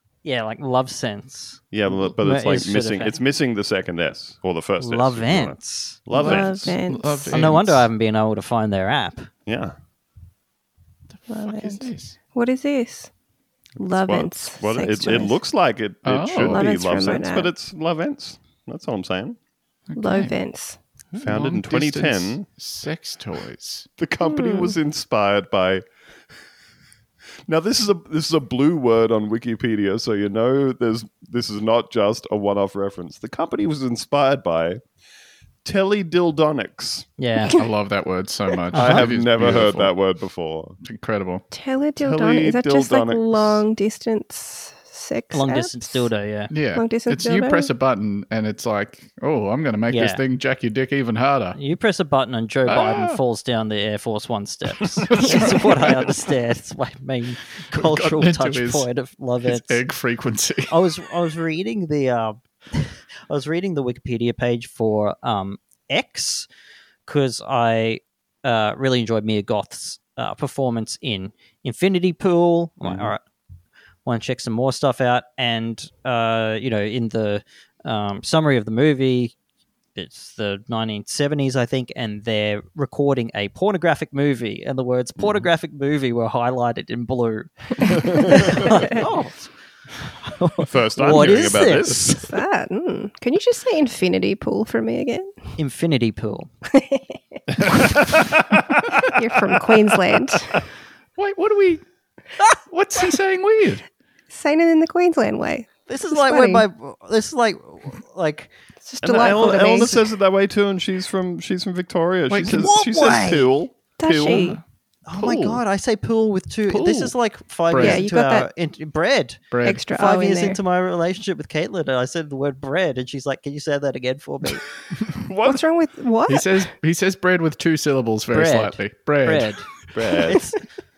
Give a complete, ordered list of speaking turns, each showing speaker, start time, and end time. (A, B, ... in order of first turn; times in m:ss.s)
0:00.2-0:03.2 A
0:01.7-0:06.8 B
0:04.8-0:06.0 A
0:06.1-0:07.4 C
0:06.2-0:07.9 D
0:07.3-0:09.3 A
0:09.5-0:09.8 B
0:11.3-0:13.1 C
0:11.4-0:12.2 D
0:13.8-0:15.4 C
0:13.8-0:19.4 B
0:16.0-0:16.7 D
0:16.4-0:17.5 C
0:19.9-0:20.4 D
0:20.0-0:20.8 C
0:21.2-0:23.9 D
0:21.2-0:22.5 B
0:24.0-0:25.8 B
0:24.2-0:24.7 C
0:27.5-0:34.8 B
0:35.6-0:37.1 B
0:37.2-0:37.6 A
0:37.5-0:39.9 D
0:38.7-0:39.1 A
0:38.7-0:40.8 B
0:40.8-0:41.4 D
0:41.5-0:46.1 C
0:42.0-0:43.6 B
0:45.3-0:46.5 A
0:46.5-0:51.6 D
0:46.8-0:47.7 C
0:49.9-0:50.2 A
0:51.6-0:59.8 A
0:52.7-0:53.2 D
0:55.1-0:56.1 D
0:57.7-0:58.9 D
0:59.4-1:00.8 D
1:00.7-1:06.5 A
1:07.1-1:13.2 A
1:12.8-1:13.1 B
1:14.0-1:19.4 A
1:20.0-1:29.5 A
1:25.2-1:25.4 B
1:30.2-1:32.3 A
1:30.6-1:32.4 B
1:32.1-1:35.3 C
1:35.6-1:36.5 A
1:36.7-1:37.4 C
1:37.8-1:39.0 B
1:38.9-1:40.6 C
1:41.2-1:41.8 D
1:42.7-1:43.8 D
1:44.3-1:46.6 C
1:45.9-1:48.5 A
1:48.8-1:50.0 C
1:49.0-1:54.6 B
1:49.2-1:50.0 A
1:52.3-1:52.6 D
1:52.4-1:53.5 A
1:54.0-1:54.6 C
1:54.2-1:54.6 D
1:55.1-2:04.6 A
1:55.2-1:55.6 B
1:56.7-1:57.1 B
1:57.7-1:58.0 D
1:57.8-1:58.5 C
1:59.5-1:59.8 D
1:59.6-2:00.6 C
2:05.1-2:05.6 B
2:05.4-2:06.6 C
2:06.3-2:09.6 D
2:08.3-2:09.7 A
2:09.9-2:10.5 B
2:10.2-2:10.6 A